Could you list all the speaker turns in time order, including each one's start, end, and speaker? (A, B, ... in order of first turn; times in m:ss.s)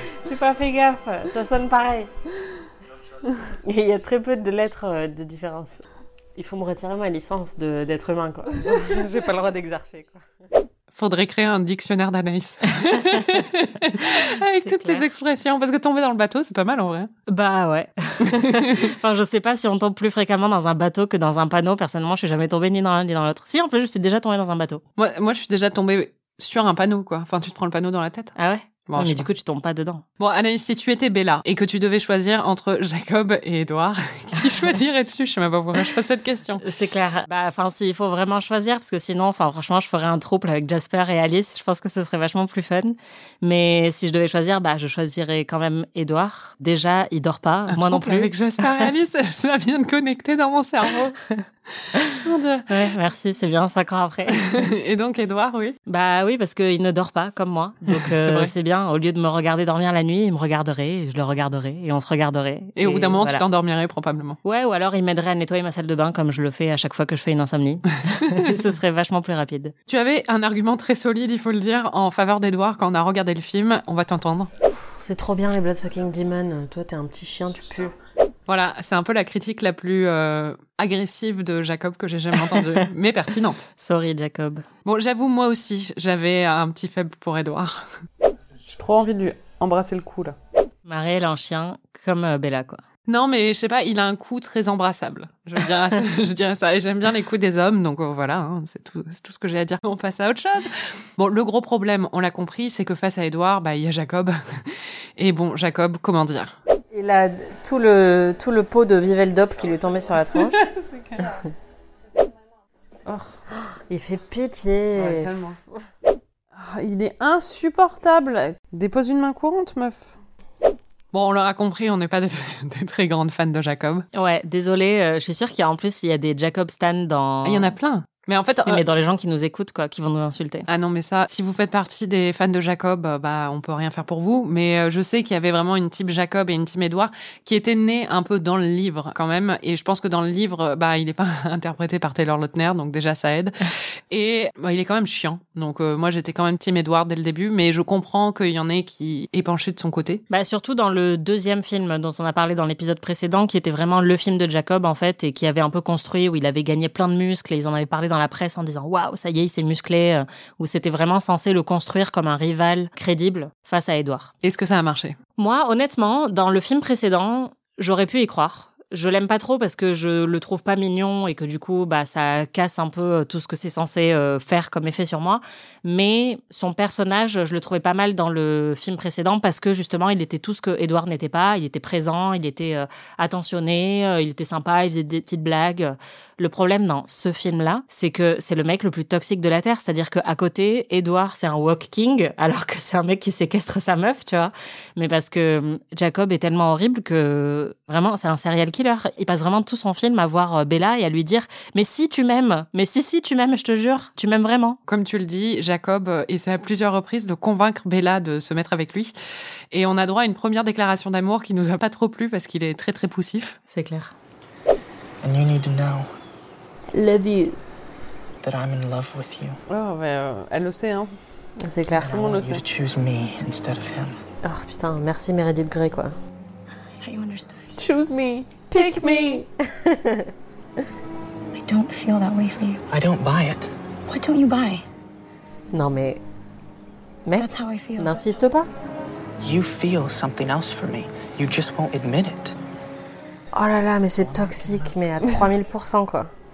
0:00.2-0:02.1 A
0:03.6-0:05.8 A
0:06.3-0:10.2 A
0:10.9-0:17.1 B
0:14.0-0:15.1 C
0:17.3-0:24.8 C
0:18.3-0:18.8 B
0:25.0-0:28.3 B
0:28.4-0:30.0 C
0:28.9-0:29.3 B
0:30.2-0:36.6 B
0:36.6-0:48.8 C
0:47.7-0:51.2 B
0:51.3-0:52.2 C
0:52.2-0:52.9 B
0:52.7-0:54.6 C
0:54.3-0:55.8 B
0:55.9-1:03.4 C
0:57.9-0:58.5 B
1:02.8-1:04.4 B
1:04.4-1:09.7 C
1:09.9-1:14.5 B
1:15.0-1:17.9 A
1:18.5-1:23.6 B
1:23.8-1:24.6 C
1:24.8-1:27.9 B
1:28.7-1:30.3 D
1:30.8-1:32.8 C
1:33.1-1:46.6 B
1:46.9-1:50.6 A
1:50.6-1:51.2 D
1:53.0-1:53.3 D
1:53.9-1:55.5 A
1:54.9-1:55.6 D
1:56.5-2:00.1 D
2:01.1-2:04.1 B
2:04.1-2:07.7 C
2:07.4-2:08.8 B
2:08.6-2:10.6 C
2:10.7-2:23.6 B
2:24.1-2:30.2 B
2:30.3-2:44.3 C
2:44.4-2:45.2 B
2:45.4-3:24.8 C
3:24.9-3:29.1 B
3:29.7-3:33.6 B
3:33.7-3:34.1 C
3:35.2-3:36.0 E
3:36.9-3:37.6 D
3:38.4-3:39.6 E
3:39.7-3:41.1 D
3:41.6-3:42.6 A
3:42.0-3:44.2 E
3:44.4-3:46.2 A
3:46.9-3:47.8 F
3:47.8-3:49.4 D
3:48.7-3:50.3 A
3:51.5-3:52.8 F
3:52.9-3:53.7 E
3:54.0-3:54.8 F
3:55.7-3:56.2 A
3:57.2-3:58.7 A
3:57.4-3:58.2 F
3:59.4-4:02.6 E
4:03.5-4:06.3 A
4:04.2-4:04.8 E